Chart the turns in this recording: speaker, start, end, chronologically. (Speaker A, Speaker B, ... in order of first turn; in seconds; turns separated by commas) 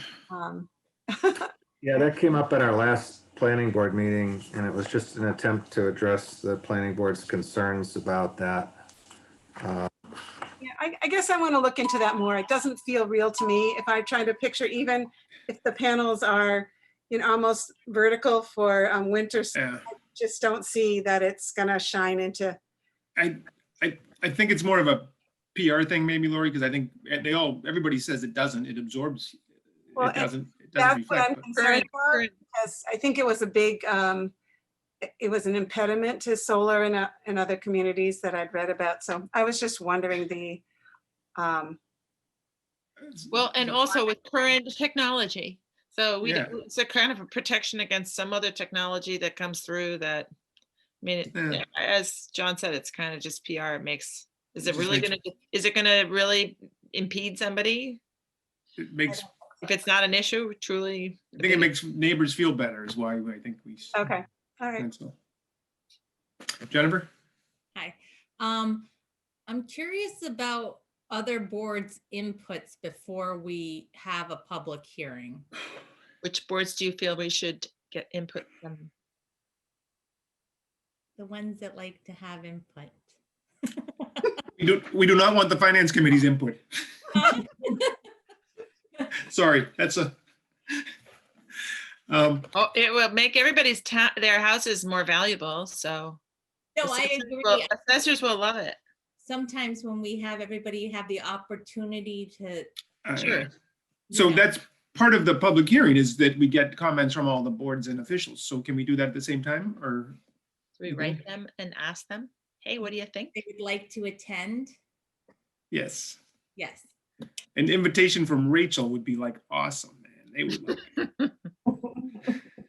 Speaker A: 0.3-1.5, Speaker B: 1.8-8.8, Speaker B: 9.6-9.9, Speaker A: 10.6-22.6, Speaker C: 19.5-19.8, Speaker C: 23.2-29.4, Speaker C: 29.9-31.4, Speaker A: 30.0-34.3, Speaker D: 31.6-32.3, Speaker A: 35.2-40.6, Speaker A: 41.4-41.8, Speaker C: 43.0-43.7, Speaker D: 43.3-50.3, Speaker C: 46.2-46.5, Speaker D: 51.0-58.0, Speaker C: 51.3-51.6, Speaker C: 54.6-55.1, Speaker C: 58.8-59.3, Speaker D: 59.6-61.7, Speaker C: 61.4-64.0, Speaker A: 63.9-64.9, Speaker C: 64.8-65.1, Speaker C: 66.6-67.1, Speaker E: 67.8-68.9, Speaker E: 69.5-75.5, Speaker D: 76.2-78.9, Speaker E: 81.2-83.0, Speaker E: 83.6-84.3, Speaker C: 84.6-86.6, Speaker E: 87.1-88.0, Speaker C: 89.3-90.1, Speaker C: 92.1-92.5, Speaker D: 92.5-96.2, Speaker E: 96.8-97.7, Speaker D: 96.8-98.8, Speaker E: 99.2-102.7, Speaker C: 103.0-103.5, Speaker D: 103.2-103.5, Speaker E: 104.1-104.4, Speaker C: 104.1-110.2, Speaker D: 110.8-113.4, Speaker C: 110.9-111.2, Speaker E: 113.3-114.7, Speaker C: 115.7-116.2, Speaker E: 116.6-116.9, Speaker C: 117.6-120.8